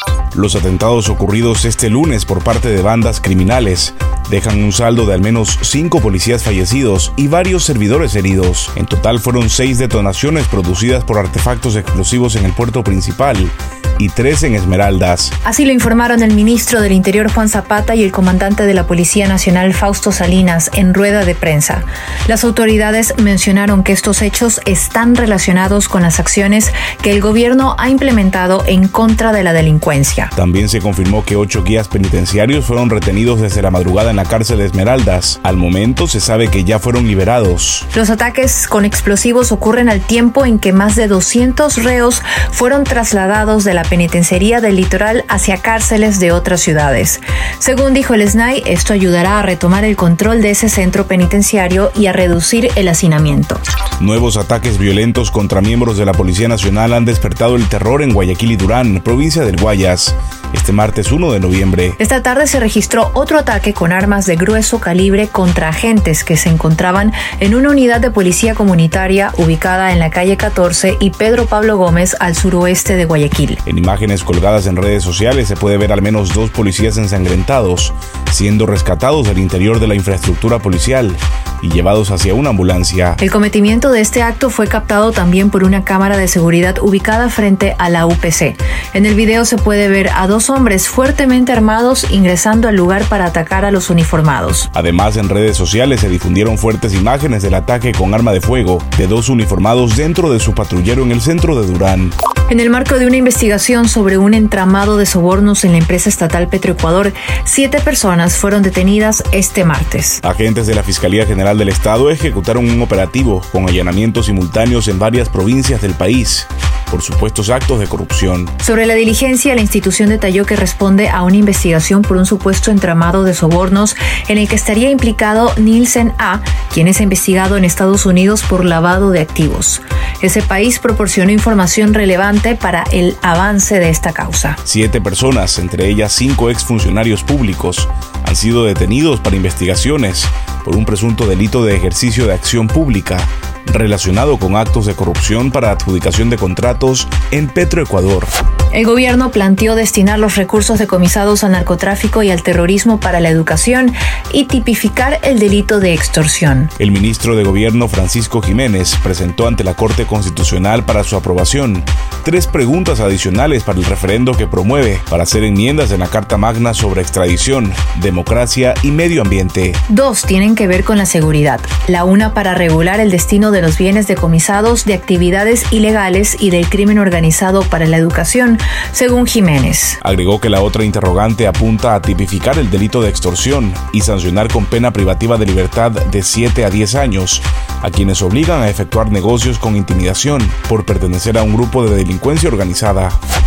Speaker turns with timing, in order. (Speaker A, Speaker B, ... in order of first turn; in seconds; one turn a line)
Speaker A: 0.3-15.3
Speaker B: 15.4-30.3
Speaker A: 30.4-37.9
Speaker B: 37.9-53.6
Speaker A: 54.0-62.0
Speaker B: 62.0-73.6
Speaker A: 73.7-83.2
Speaker B: 83.2-94.7
Speaker A: 94.7-102.2
Speaker B: 102.5-110.2
Speaker A: 110.2-118.5
Speaker B: 118.6-134.6
Speaker A: 134.7-148.3
Speaker B: 148.7-156.7
Speaker A: 156.8-169.8
Speaker B: 169.9-180.0
Speaker A: 180.0-193.2